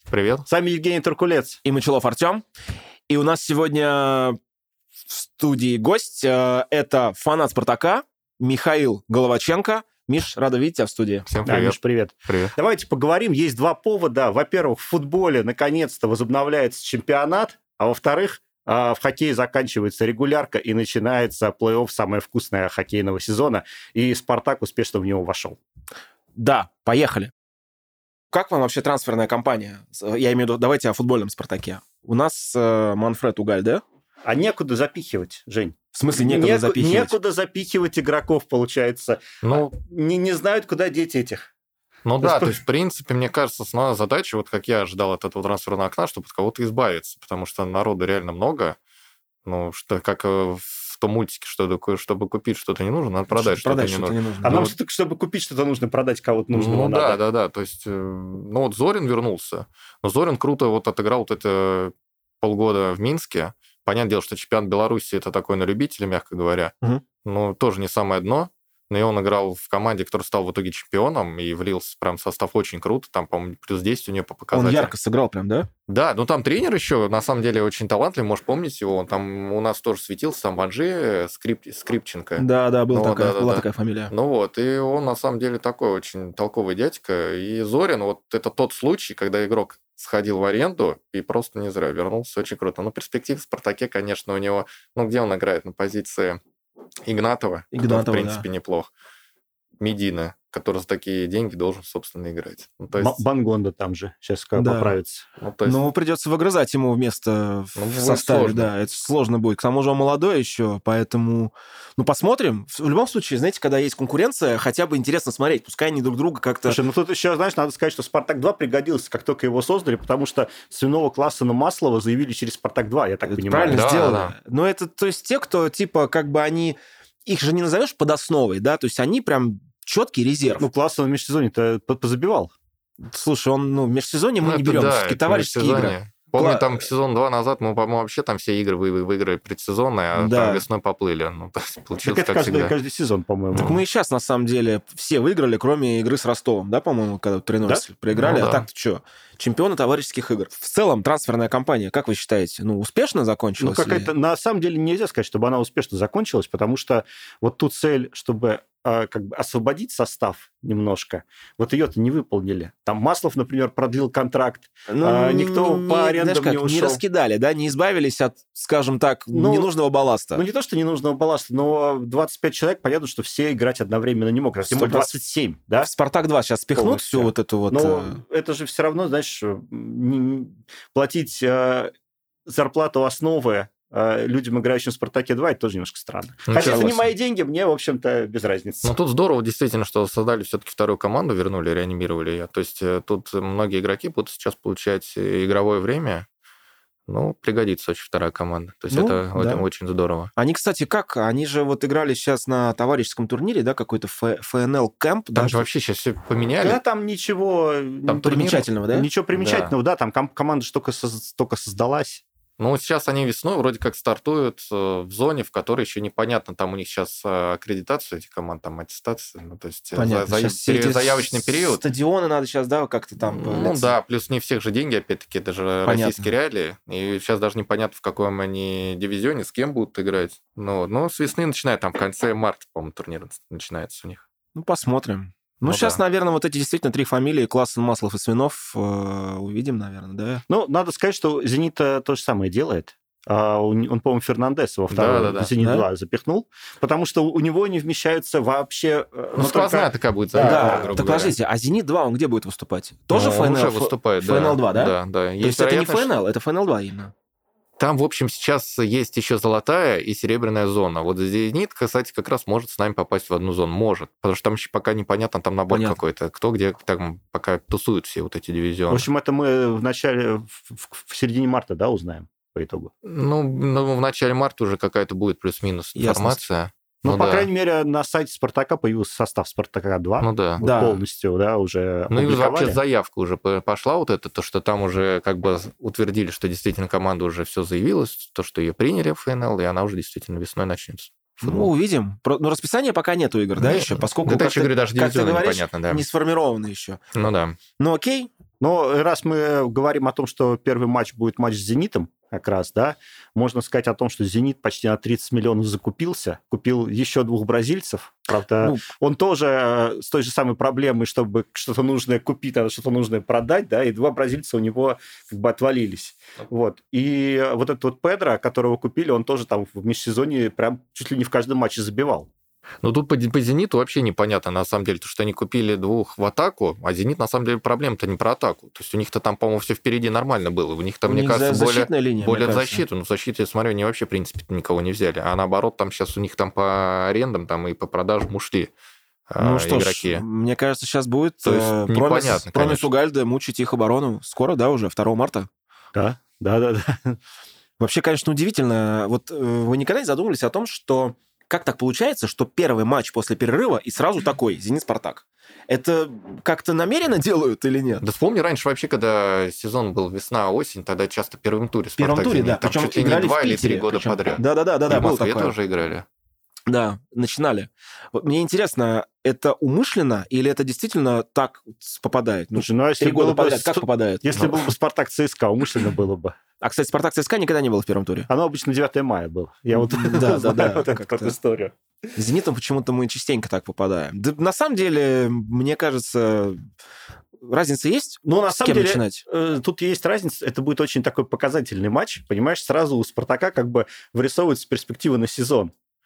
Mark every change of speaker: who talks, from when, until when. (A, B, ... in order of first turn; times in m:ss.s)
0:00.1-0:00.5 A
0:00.5-0:01.6 B
0:01.6-0:02.4 C
0:03.1-0:04.4 C
0:05.1-0:11.3 C
0:11.3-0:12.6 A
0:11.4-0:25.6 B
0:26.4-0:27.3 C
0:28.3-0:33.8 C
0:34.3-0:41.5 B
0:35.9-0:37.2 C
0:39.4-0:39.7 A
0:42.1-0:48.8 A
0:42.2-0:42.6 B
0:49.5-0:54.7 A
0:53.3-0:54.6 C
0:54.4-0:57.2 B
0:56.5-1:14.9 A
1:14.5-1:15.7 C
1:15.9-1:36.4 A
1:22.4-1:24.1 C
1:37.0-1:38.9 A
1:37.7-1:38.5 C
1:39.8-1:43.2 A
1:43.0-1:45.2 B
1:44.6-1:45.0 C
1:45.4-1:45.8 A
1:45.6-1:56.8 C
1:47.8-1:48.7 A
1:56.6-2:03.9 B
2:03.2-2:10.7 C
2:03.7-2:04.4 A
2:10.6-2:12.5 B
2:13.0-2:16.8 C
2:14.4-2:22.8 A
2:20.1-2:20.6 C
2:22.0-2:23.8 B
2:23.5-2:34.1 C
2:28.1-2:28.7 A
2:33.6-2:47.0 B
2:44.9-2:50.4 C
2:49.3-2:49.7 B
2:50.3-2:55.9 B
2:54.7-2:55.1 C
2:55.8-2:58.2 C
2:56.7-3:01.9 B
3:02.5-3:09.0 B
3:06.5-3:07.1 A
3:06.6-3:07.0 C
3:08.8-3:16.3 A
3:17.1-3:20.3 A
3:18.9-3:19.6 C
3:20.4-3:25.7 C
3:25.3-3:26.8 A
3:26.6-3:32.2 B
3:28.1-3:28.6 A
3:28.2-3:29.1 C
3:29.3-3:29.7 A
3:32.6-3:41.8 A
3:39.9-3:44.0 C
3:43.2-3:54.2 A
3:45.8-3:46.3 C
3:54.6-4:00.4 C
3:55.6-3:56.0 A
4:00.5-4:10.9 B
4:04.9-4:05.5 A
4:05.6-4:05.9 C
4:09.4-4:11.4 A
4:10.4-4:17.1 C
4:13.1-4:16.1 A
4:17.8-4:29.1 A
4:25.7-4:26.0 C
4:28.9-4:32.9 B
4:33.0-4:37.5 A
4:36.0-4:36.5 C
4:37.0-4:42.8 B
4:40.2-4:40.6 A
4:40.6-4:41.0 C
4:42.1-4:51.7 A
4:51.4-4:57.0 C
4:53.6-4:56.1 A
4:57.1-4:57.6 A
4:57.8-4:58.3 C
4:58.6-5:22.3 B
5:08.6-5:08.9 C
5:22.8-5:38.7 A
5:31.0-5:32.8 C
5:39.3-5:40.2 A
5:39.4-5:45.5 C
5:41.4-5:42.9 A
5:46.0-5:47.2 B
5:47.8-5:58.0 C
5:58.0-6:06.0 A
6:02.0-6:05.6 C
6:06.7-6:14.2 C
6:12.6-6:16.4 B
6:14.3-6:14.7 A
6:16.6-6:18.3 C
6:18.3-6:21.8 B
6:19.8-6:21.3 C
6:22.2-6:26.6 C
6:27.4-6:29.2 C
6:28.2-6:35.7 B